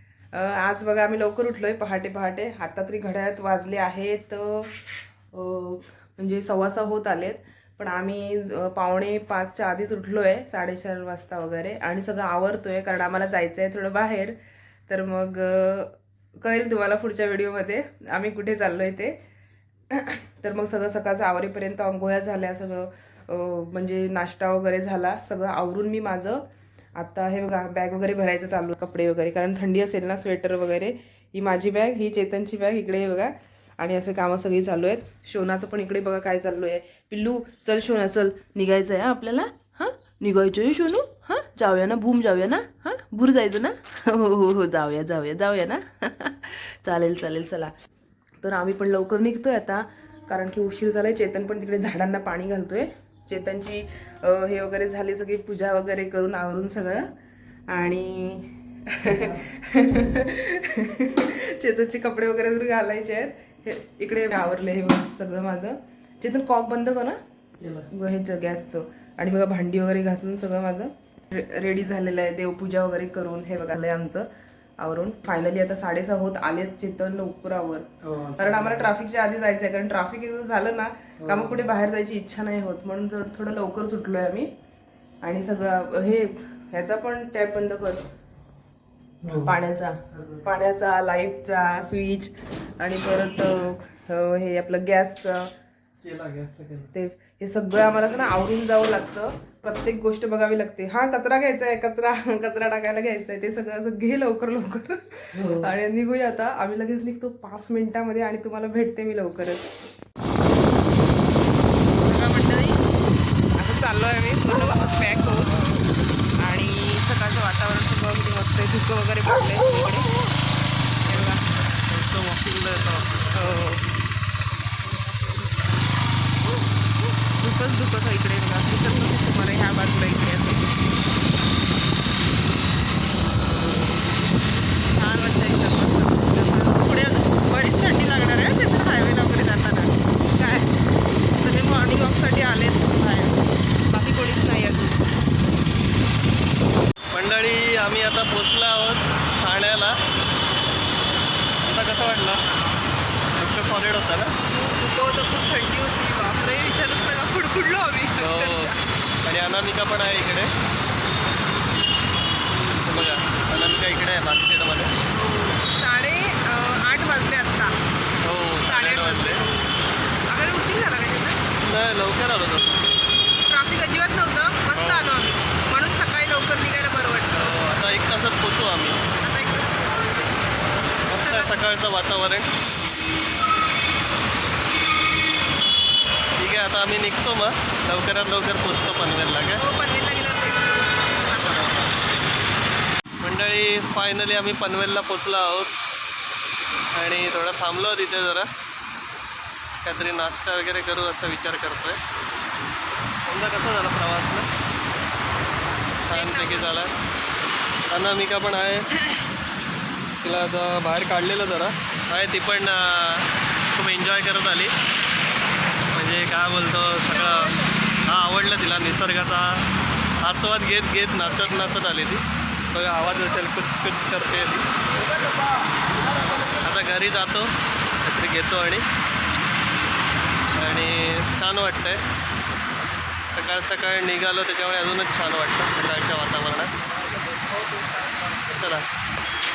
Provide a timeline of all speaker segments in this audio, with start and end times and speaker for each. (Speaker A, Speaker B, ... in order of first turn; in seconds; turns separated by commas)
Speaker A: 0.3-4.7, Speaker A: 5.3-14.3, Speaker A: 14.9-19.2, Speaker A: 19.9-26.4, Speaker A: 26.9-47.7, Speaker A: 48.4-57.1, Speaker A: 57.7-67.2, Speaker B: 67.6-67.9, Speaker A: 67.9-74.3, Speaker A: 74.8-84.5, Speaker B: 78.0-78.9, Speaker B: 81.2-81.7, Speaker A: 85.2-88.1, Speaker B: 89.2-89.5, Speaker A: 89.4-95.5, Speaker B: 90.1-90.5, Speaker B: 96.0-96.9, Speaker A: 96.9-109.7, Speaker B: 105.3-105.7, Speaker A: 111.9-112.8, Speaker A: 113.5-115.7, Speaker A: 116.4-120.1, Speaker B: 121.0-123.7, Speaker A: 121.0-121.4, Speaker A: 123.3-123.9, Speaker A: 124.8-125.7, Speaker A: 127.4-130.8, Speaker A: 134.9-140.7, Speaker A: 141.4-145.2, Speaker B: 147.1-149.9, Speaker B: 151.6-152.4, Speaker B: 153.3-154.3, Speaker A: 154.4-158.8, Speaker B: 158.2-158.7, Speaker B: 159.2-160.5, Speaker B: 162.7-164.9, Speaker A: 165.1-167.8, Speaker B: 168.2-169.4, Speaker A: 168.6-169.6, Speaker A: 170.3-171.4, Speaker B: 171.6-172.9, Speaker A: 173.5-177.5, Speaker B: 174.7-175.1, Speaker B: 177.3-179.0, Speaker A: 179.2-180.6, Speaker B: 181.1-182.5, Speaker A: 181.2-181.6, Speaker B: 186.4-189.6, Speaker A: 189.5-191.8, Speaker B: 191.3-191.9, Speaker B: 193.2-195.7, Speaker B: 196.9-198.5, Speaker B: 199.8-202.0, Speaker B: 203.3-204.5, Speaker A: 206.0-206.8, Speaker B: 206.1-206.9, Speaker B: 207.9-208.9, Speaker B: 210.2-214.7, Speaker B: 215.9-219.6, Speaker B: 220.2-224.7, Speaker B: 226.5-228.8, Speaker B: 230.5-232.0, Speaker B: 233.3-236.7, Speaker B: 237.7-238.8